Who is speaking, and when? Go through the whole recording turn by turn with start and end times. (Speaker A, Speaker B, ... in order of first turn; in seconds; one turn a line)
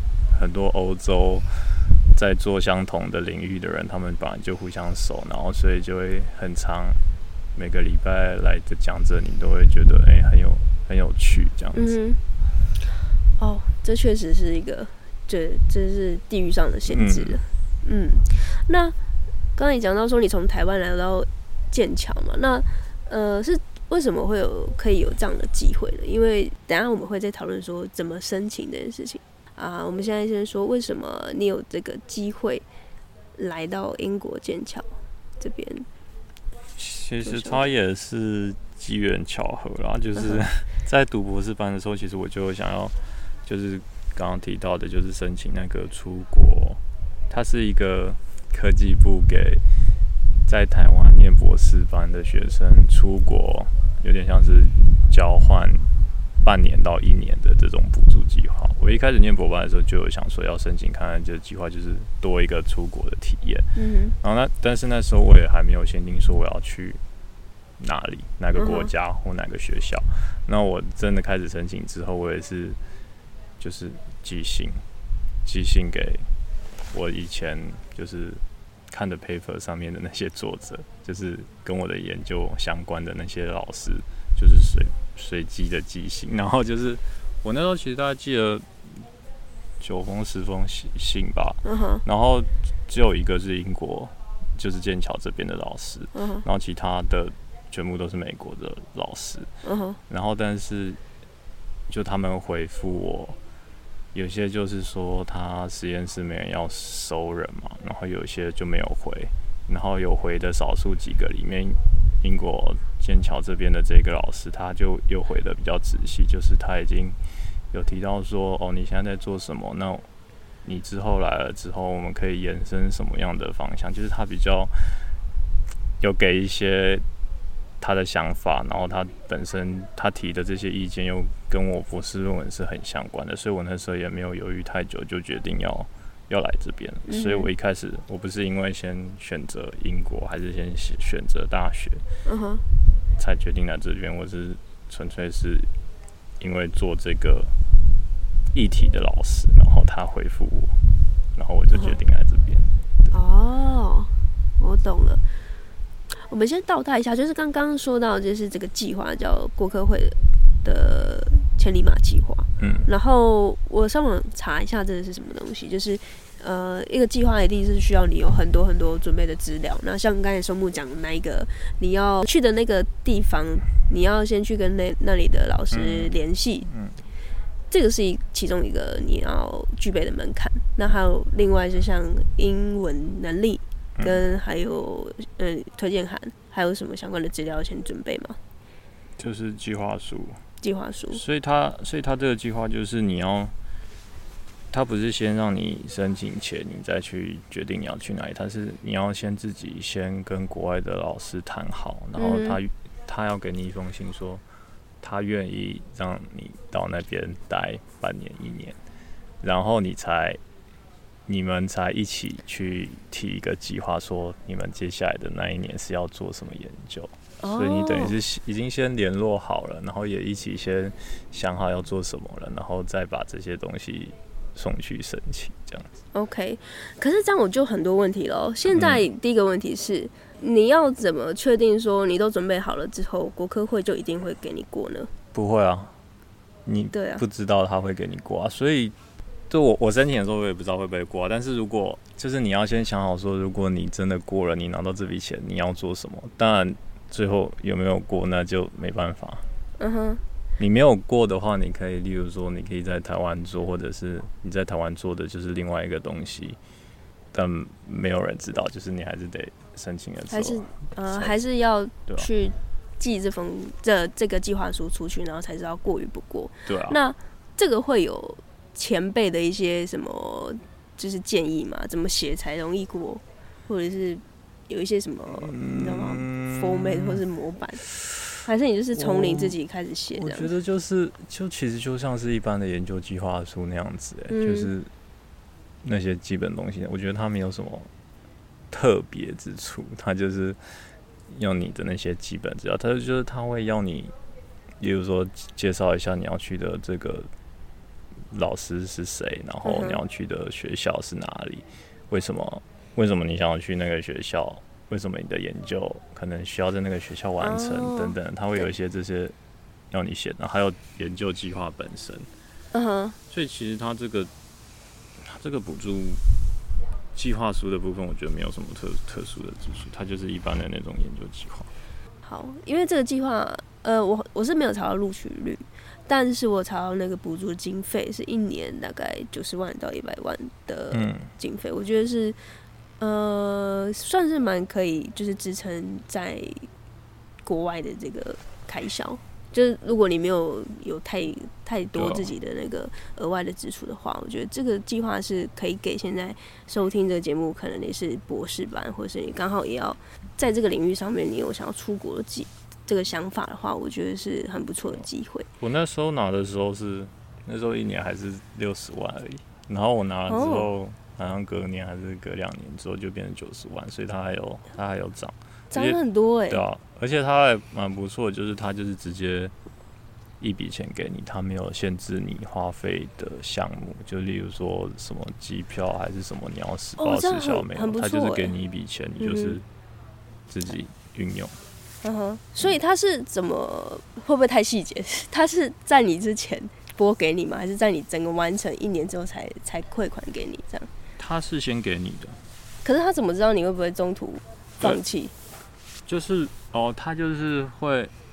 Speaker A: 0.3-7.0
Speaker A: 7.5-11.9
Speaker B: 11.7-12.2
Speaker B: 13.4-18.9
Speaker A: 16.9-17.4
Speaker B: 19.6-32.6
Speaker B: 33.4-35.9
Speaker A: 36.8-49.6
Speaker B: 37.2-37.6
Speaker B: 40.1-40.4
Speaker A: 50.5-55.9
Speaker A: 56.4-63.7
Speaker B: 63.7-64.1
Speaker A: 64.2-67.0
Speaker A: 67.8-72.8
Speaker B: 68.5-68.9
Speaker A: 73.6-74.8
Speaker A: 75.4-76.3
Speaker A: 76.9-89.0
Speaker A: 89.8-99.5
Speaker B: 91.6-92.0
Speaker B: 96.1-96.5
Speaker B: 99.6-100.0
Speaker A: 100.1-101.0
Speaker A: 101.9-103.3
Speaker A: 104.1-117.2
Speaker A: 117.7-120.0
Speaker A: 120.6-125.1
Speaker A: 126.0-127.0
Speaker A: 127.8-142.0
Speaker B: 137.1-137.5
Speaker B: 142.2-142.6
Speaker A: 143.2-145.7
Speaker A: 146.4-147.5
Speaker A: 148.5-150.8
Speaker A: 151.3-152.7
Speaker B: 151.7-152.0
Speaker B: 153.1-155.2
Speaker B: 156.1-176.7
Speaker A: 162.6-162.9
Speaker A: 175.7-176.1
Speaker A: 176.7-177.0
Speaker B: 177.7-188.4
Speaker A: 184.0-184.2
Speaker A: 189.2-190.4
Speaker B: 190.6-191.2
Speaker A: 191.1-193.5
Speaker A: 194.7-204.4
Speaker B: 202.2-202.6
Speaker A: 205.0-208.8
Speaker A: 209.4-210.4
Speaker A: 211.2-225.9
Speaker B: 217.4-218.2
Speaker B: 226.1-235.1
Speaker A: 228.7-229.1
Speaker A: 235.3-235.9
Speaker A: 236.6-238.9
Speaker B: 236.9-237.2
Speaker A: 239.5-249.4
Speaker B: 249.8-250.2
Speaker A: 250.6-256.6
Speaker A: 257.3-261.4
Speaker B: 260.3-277.8
Speaker A: 266.6-267.0
Speaker A: 275.3-277.2
Speaker B: 278.4-280.5
Speaker A: 278.9-279.6
Speaker A: 280.1-284.9
Speaker B: 284.3-284.7
Speaker A: 285.8-287.9
Speaker A: 288.7-294.1
Speaker A: 294.8-297.3
Speaker A: 298.3-309.3
Speaker B: 299.6-300.0
Speaker B: 307.4-308.7
Speaker A: 309.9-312.3
Speaker B: 312.7-313.2
Speaker A: 313.3-314.3
Speaker A: 315.2-316.2
Speaker A: 317.1-321.7
Speaker B: 322.2-332.4
Speaker A: 330.9-331.3
Speaker B: 333.0-336.7
Speaker B: 337.4-355.5
Speaker A: 341.9-342.3
Speaker A: 355.6-366.0
Speaker B: 360.3-360.7
Speaker B: 365.7-366.6
Speaker A: 366.5-369.5
Speaker A: 370.4-379.6
Speaker B: 377.0-378.5
Speaker B: 379.2-379.6
Speaker A: 380.5-381.6
Speaker B: 382.0-390.9
Speaker A: 391.2-392.4
Speaker B: 392.8-395.3
Speaker A: 396.1-398.1